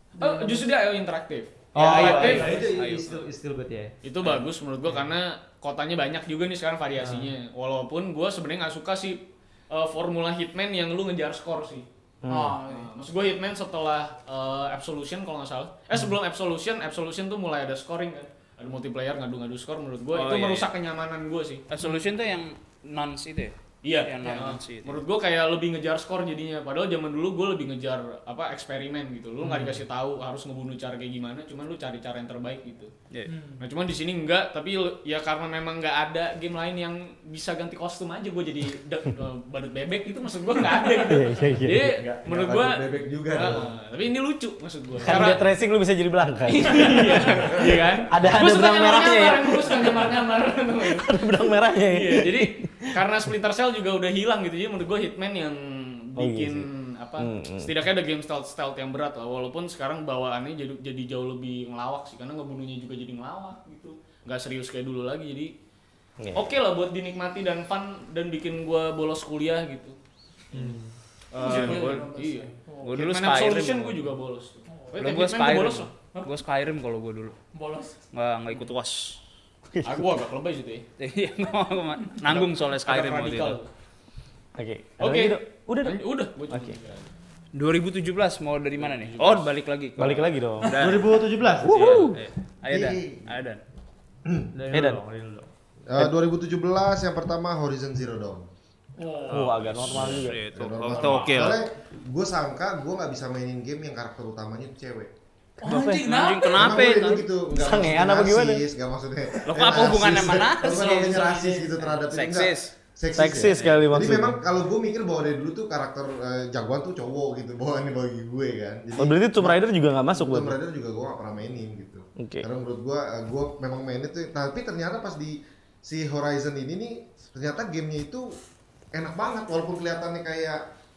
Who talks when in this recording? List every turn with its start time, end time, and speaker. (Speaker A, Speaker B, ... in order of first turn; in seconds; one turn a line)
Speaker A: 0.2-2.7
Speaker B: 0.2-0.6
Speaker B: 1.7-4.0
Speaker C: 1.8-3.2
Speaker D: 2.0-2.6
Speaker A: 4.0-11.9
Speaker B: 7.0-7.3
Speaker E: 12.2-12.6
Speaker D: 12.3-12.9
Speaker A: 12.6-21.6
Speaker C: 20.1-20.7
Speaker C: 21.7-25.0
Speaker A: 23.8-32.9
Speaker B: 29.4-29.8
Speaker D: 33.3-33.7
Speaker A: 33.6-45.5
Speaker E: 41.0-42.0
Speaker F: 41.8-43.7
Speaker E: 45.0-50.1
Speaker A: 46.5-51.1
Speaker E: 50.8-53.0
Speaker A: 51.9-65.5
Speaker E: 56.2-56.7
Speaker E: 57.2-57.8
Speaker E: 66.2-66.5
Speaker A: 66.3-70.0
Speaker B: 70.5-71.0
Speaker A: 71.3-75.9
Speaker D: 71.4-73.0
Speaker C: 71.4-72.1
Speaker C: 72.8-74.1
Speaker D: 74.7-75.0
Speaker C: 75.0-77.4
Speaker D: 77.5-78.0
Speaker C: 78.1-79.2
Speaker E: 79.7-80.1
Speaker A: 79.8-80.9
Speaker C: 81.0-83.6
Speaker A: 82.2-83.7
Speaker E: 84.6-86.8
Speaker A: 85.0-87.1
Speaker C: 87.5-93.6
Speaker A: 88.8-89.5
Speaker E: 90.0-90.8
Speaker B: 90.8-92.1
Speaker E: 91.6-92.2
Speaker F: 92.7-93.3
Speaker F: 94.3-94.5
Speaker B: 94.5-95.5
Speaker E: 94.7-95.0
Speaker F: 95.9-98.5
Speaker D: 99.0-99.6
Speaker E: 99.3-100.5
Speaker C: 99.8-101.6
Speaker F: 99.9-105.1
Speaker D: 105.6-106.6
Speaker E: 105.6-106.0
Speaker C: 105.8-107.2
Speaker F: 106.5-128.3
Speaker E: 107.5-108.7
Speaker C: 109.5-111.4
Speaker A: 110.9-111.7
Speaker C: 112.0-112.7
Speaker E: 113.2-114.4
Speaker C: 113.4-113.8
Speaker E: 119.0-120.6
Speaker E: 122.2-122.5
Speaker F: 128.9-130.6